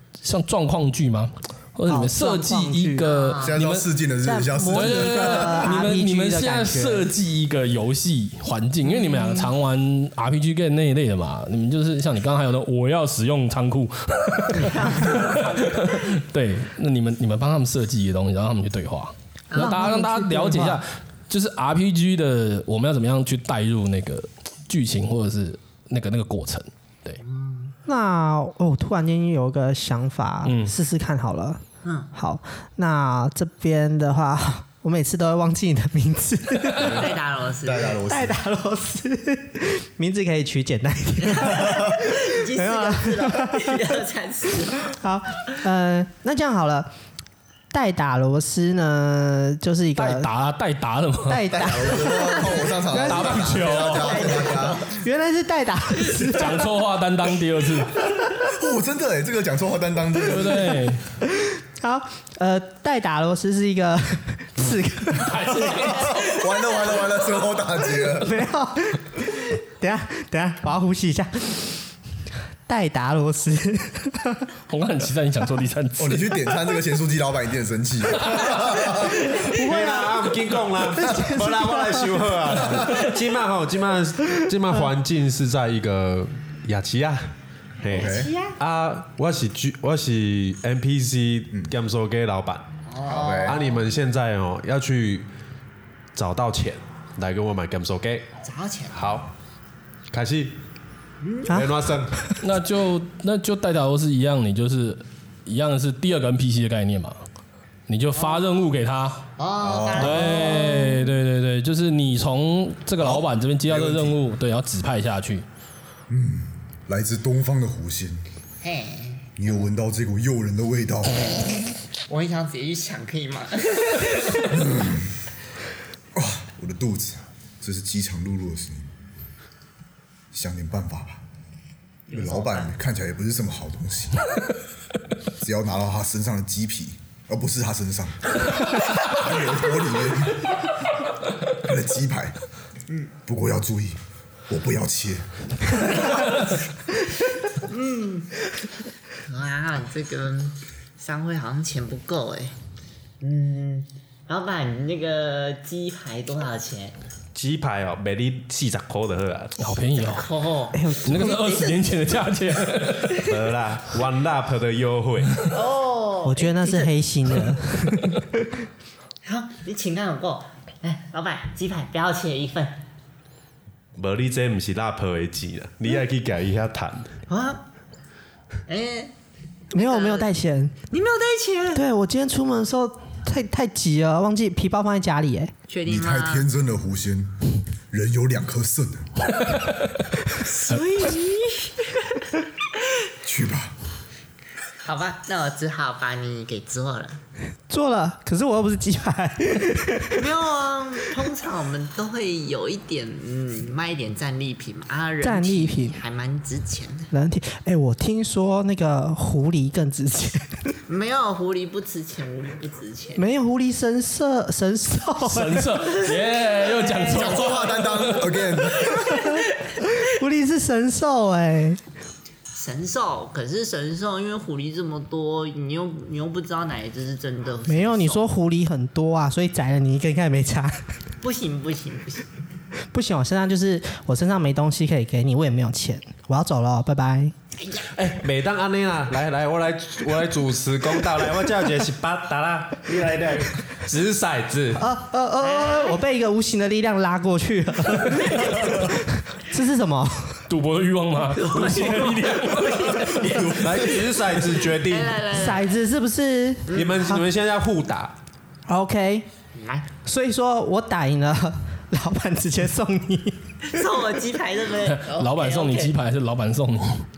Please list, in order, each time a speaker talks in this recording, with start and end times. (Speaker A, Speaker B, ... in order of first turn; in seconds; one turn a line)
Speaker A: 0.2-3.9
Speaker B: 1.9-3.0
Speaker C: 3.0-3.6
Speaker D: 3.4-5.5
Speaker B: 4.2-7.1
Speaker A: 4.7-27.2
Speaker B: 8.9-9.5
Speaker B: 14.7-15.1
Speaker C: 19.5-19.9
Speaker B: 19.6-20.8
Speaker C: 27.2-27.7
Speaker B: 27.9-31.6
Speaker A: 30.4-30.7
Speaker C: 31.8-32.1
Speaker B: 32.1-37.0
Speaker C: 36.8-38.0
Speaker D: 36.8-37.1
Speaker D: 37.6-38.4
Speaker B: 38.1-43.7
Speaker C: 41.2-45.0
Speaker B: 44.9-46.9
Speaker B: 47.7-50.3
Speaker A: 50.0-51.4
Speaker B: 51.2-53.6
Speaker D: 51.5-54.9
Speaker C: 52.1-52.5
Speaker A: 53.0-54.2
Speaker C: 53.8-55.0
Speaker B: 54.8-56.6
Speaker A: 56.3-57.9
Speaker D: 58.4-60.8
Speaker A: 60.2-61.0
Speaker B: 61.4-66.0
Speaker A: 65.2-66.1
Speaker D: 65.7-68.4
Speaker B: 68.1-71.8
Speaker B: 72.7-74.4
Speaker A: 74.7-76.3
Speaker D: 76.0-79.3
Speaker B: 78.9-80.3
Speaker E: 79.5-87.3
Speaker B: 80.9-83.0
Speaker E: 87.8-92.7
Speaker C: 87.9-88.5
Speaker D: 87.9-88.3
Speaker C: 92.9-93.8
Speaker D: 93.0-93.6
Speaker E: 93.4-95.3
Speaker E: 96.1-98.2
Speaker C: 98.4-99.1
Speaker E: 98.9-99.3
Speaker E: 100.1-100.6
Speaker C: 101.2-101.5
Speaker E: 101.5-102.2
Speaker B: 101.5-101.8
Speaker A: 102.4-107.2
Speaker A: 107.9-109.2
Speaker C: 108.1-108.5
Speaker C: 109.4-110.9
Speaker D: 109.6-110.5
Speaker A: 110.0-115.5
Speaker B: 110.6-110.9
Speaker D: 113.0-114.2
Speaker D: 116.1-118.2
Speaker C: 118.6-119.5
Speaker D: 119.4-121.4
Speaker C: 122.1-124.6
Speaker D: 124.5-125.3
Speaker D: 126.1-128.9
Speaker D: 130.3-131.2
Speaker C: 132.1-132.7
Speaker D: 132.1-134.4
Speaker D: 135.4-140.7
Speaker D: 141.5-142.4
Speaker D: 143.2-145.3
Speaker C: 145.9-146.4
Speaker C: 147.6-148.4
Speaker C: 149.2-152.6
Speaker C: 153.2-156.9
Speaker E: 157.3-159.7
Speaker A: 159.6-160.3
Speaker C: 160.0-161.8
Speaker B: 160.7-161.4
Speaker A: 161.0-163.2
Speaker E: 163.2-165.4
Speaker C: 165.5-167.5
Speaker B: 166.2-168.4
Speaker C: 169.2-172.8
Speaker E: 173.9-177.2
Speaker C: 177.3-177.7
Speaker C: 178.7-179.1
Speaker C: 179.7-180.3
Speaker B: 179.7-180.7
Speaker C: 180.9-181.8
Speaker B: 181.7-185.5
Speaker C: 185.7-186.5
Speaker D: 185.8-189.3
Speaker A: 189.5-189.8
Speaker C: 190.4-192.2
Speaker D: 193.2-193.8
Speaker C: 194.8-197.2
Speaker B: 197.7-200.2
Speaker C: 200.1-207.1
Speaker B: 205.2-206.0
Speaker B: 207.1-210.8
Speaker C: 210.9-213.2
Speaker B: 213.2-215.8
Speaker A: 215.2-218.2
Speaker C: 215.8-218.1
Speaker D: 217.0-219.2
Speaker C: 218.7-219.7
Speaker B: 219.1-221.8
Speaker C: 222.6-228.3
Speaker B: 227.7-230.9
Speaker C: 231.2-232.3
Speaker B: 232.9-237.3
Speaker E: 237.8-244.8
Speaker B: 244.8-250.4
Speaker C: 245.4-246.0
Speaker A: 250.5-253.2
Speaker C: 251.3-255.7
Speaker E: 253.2-255.2
Speaker B: 255.2-257.2
Speaker E: 256.7-258.1
Speaker B: 258.7-259.2
Speaker C: 259.6-259.9
Speaker B: 260.1-263.8
Speaker C: 263.6-265.9
Speaker A: 264.8-267.1